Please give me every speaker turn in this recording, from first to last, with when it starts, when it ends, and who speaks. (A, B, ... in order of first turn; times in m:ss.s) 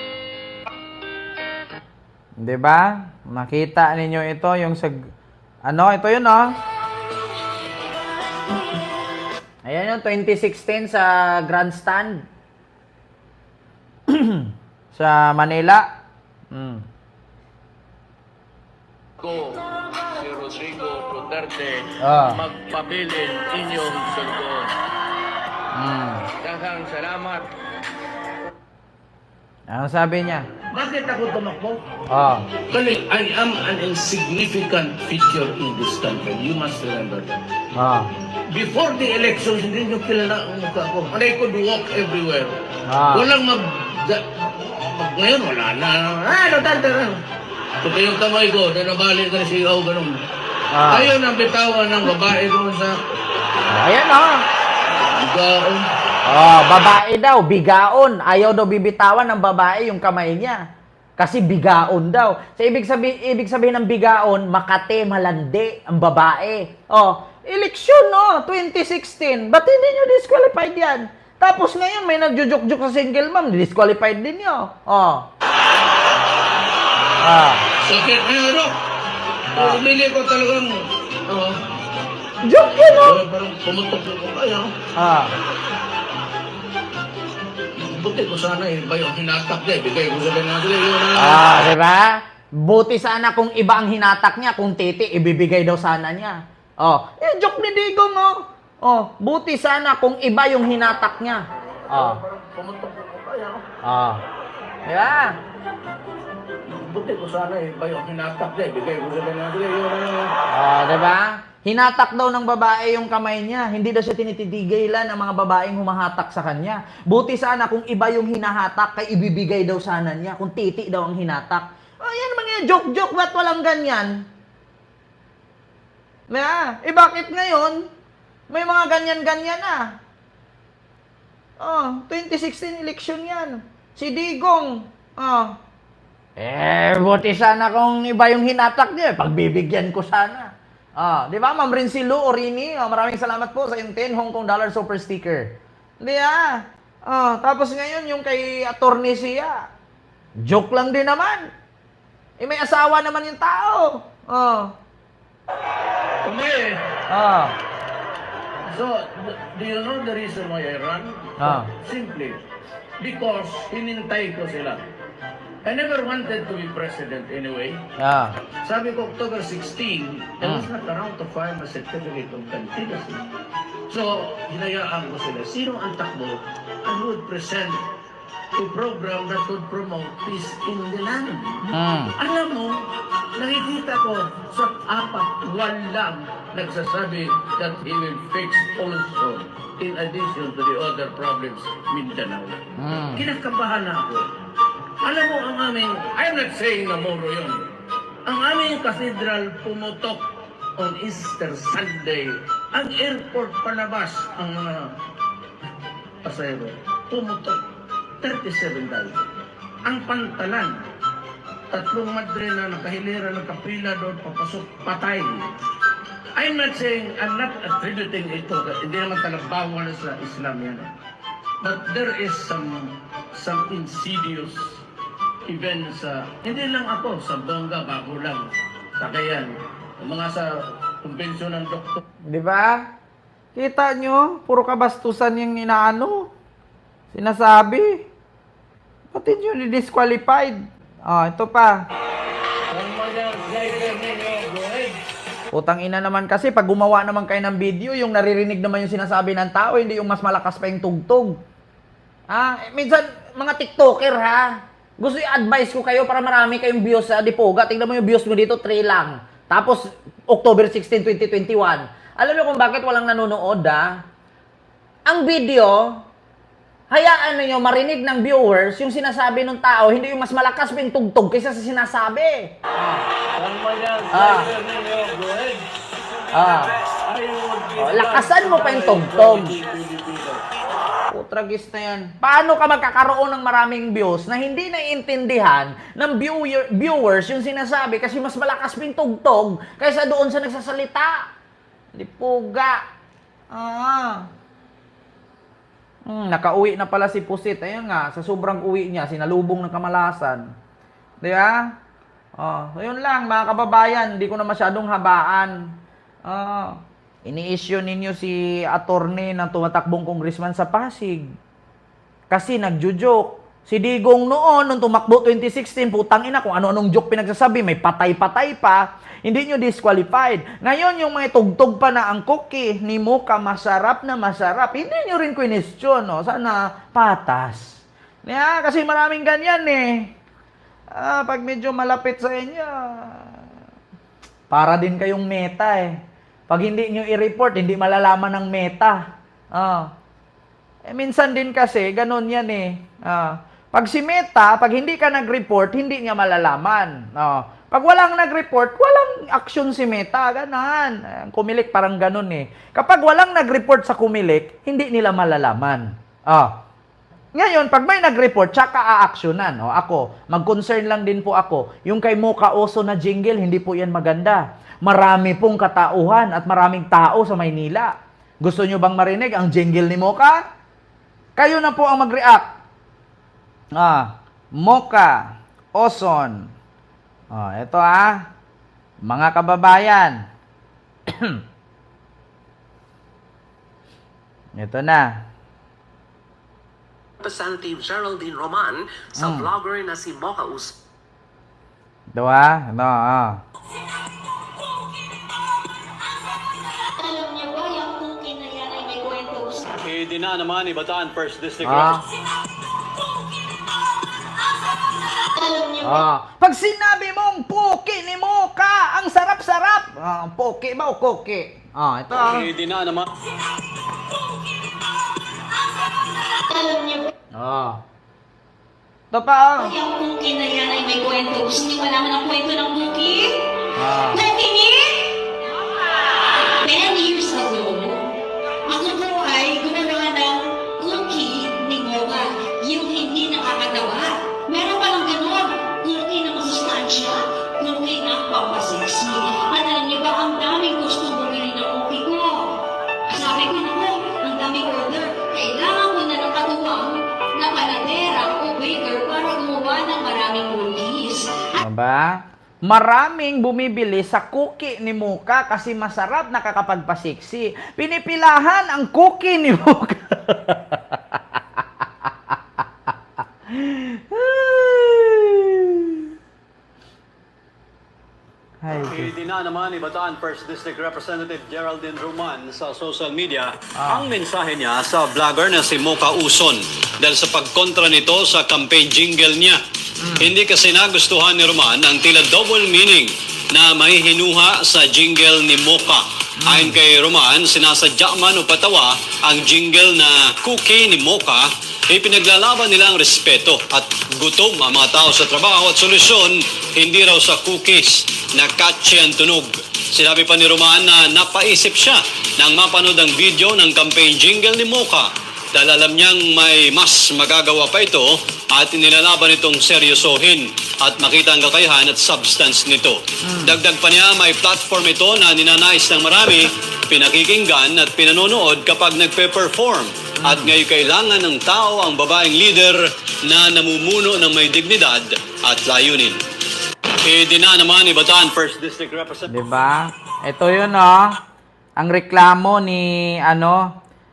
0:02.4-0:05.0 A
0:05.7-0:06.6 A
0:09.7-0:12.2 A
0:14.1-0:15.9 A
0:16.5-0:16.8 A
0:19.2-0:24.8 B
0:22.0-0:22.4 A
0:25.7-0:26.2 A
0:26.4-0:27.5 B
0:29.7-0:30.4 A
0:30.7-0:31.8 B
0:32.1-0:32.4 A
0:32.7-0:37.4 B
0:37.8-0:38.1 A
0:38.5-0:47.2 B
0:42.9-0:43.3 A
0:47.8-0:50.2 B
0:50.7-0:51.1 A
0:50.9-0:53.0 B
0:53.7-0:54.4 A
0:55.0-0:55.8 B
0:56.3-1:00.6 A
1:01.2-1:15.2 A
1:17.2-1:17.6 A
1:17.8-1:18.8 B
1:19.5-1:19.8 A
1:19.6-1:21.6 B
1:22.4-1:23.2 A
1:22.9-1:24.7 B
1:25.0-1:25.3 A
1:27.8-1:31.5 B
1:31.2-1:42.2 A
1:41.9-1:43.6 B
1:43.8-1:44.2 A
1:44.9-1:45.4 A
1:46.7-1:50.3 B
1:50.5-2:04.2 A
2:06.3-2:07.8 A
2:08.5-2:09.9 A
2:11.6-2:15.5 A
2:16.4-2:29.6 A
2:30.4-2:31.5 A
2:32.4-2:34.7 A
2:36.2-2:36.9 B
2:37.1-2:37.5 A
2:38.6-2:42.4 B
2:41.4-2:41.7 A
2:43.0-2:44.9 B
2:45.6-2:47.9 B
2:48.0-2:48.4 A
2:48.6-2:53.2 B
2:50.4-2:50.7 A
2:53.9-2:57.9 B
2:58.6-3:01.6 B
3:01.7-3:02.1 A
3:02.2-3:02.8 B
3:03.4-3:12.6 B
3:12.8-3:13.2 A
3:13.1-3:14.3 B
3:15.0-3:17.7 B
3:18.2-3:20.2 B
3:20.8-3:25.0 B
3:26.2-3:27.6 B
3:28.2-3:29.3 B
3:29.8-3:30.9 B
3:31.7-3:35.5 B
3:36.4-3:40.9 B
3:41.6-3:44.8 B
3:45.4-3:50.5 B
3:51.0-3:52.0 B
3:52.3-3:52.9 A
3:53.6-3:56.3 A
3:57.1-3:58.0 A
3:59.1-4:01.8 A
4:02.7-4:05.0 B
4:05.5-4:11.4 A
4:12.3-4:23.9 A
4:25.1-4:26.0 A
4:26.9-4:33.0 A
4:33.4-4:35.7 B
4:34.1-4:34.5 A
4:36.3-4:36.7 A
4:36.9-4:40.4 B
4:37.8-4:39.6 A
4:41.1-4:51.3 A
4:52.0-4:52.8 A
4:53.5-4:54.3 A
4:56.1-5:00.4 A
5:01.2-5:01.6 A
5:02.4-5:05.6 A
5:06.3-5:11.3 A
5:12.3-5:30.1 A
5:31.0-5:33.2 A
5:34.5-5:36.0 A
5:36.5-5:39.0 A
5:39.5-5:39.9 A
5:40.9-5:56.5 A
5:57.4-6:10.4 A
6:11.4-6:12.5 A
6:13.8-6:16.5 A
6:17.3-6:18.2 A
6:19.0-6:20.2 A
6:21.1-6:21.4 A
6:24.6-6:25.1 A
6:27.2-6:30.8 C
6:29.2-6:29.5 A
6:32.1-6:33.4 A
6:37.0-6:39.6 D
6:39.8-6:42.0 E
6:41.6-6:42.0 A
6:45.4-6:46.1 D
6:45.8-6:52.5 A
6:52.1-6:53.1 E
6:56.5-6:57.1 D
6:57.4-6:57.8 A
6:59.1-6:59.7 A
6:59.6-7:03.5 D
7:03.8-7:04.2 A
7:04.1-7:05.1 D
7:06.6-7:08.1 D
7:08.6-7:22.5 D
7:23.1-7:31.6 D
7:31.6-7:41.6 A
7:43.5-7:46.1 A
7:48.6-7:49.1 A
7:48.8-7:59.6 E
7:53.8-7:54.1 A
8:00.0-8:00.3 A
8:00.2-8:46.2 E
8:06.4-8:06.8 A
8:33.2-8:33.6 A
8:40.2-8:40.5 A
8:47.0-8:49.5 E
8:49.3-8:51.1 A
8:51.8-8:53.7 A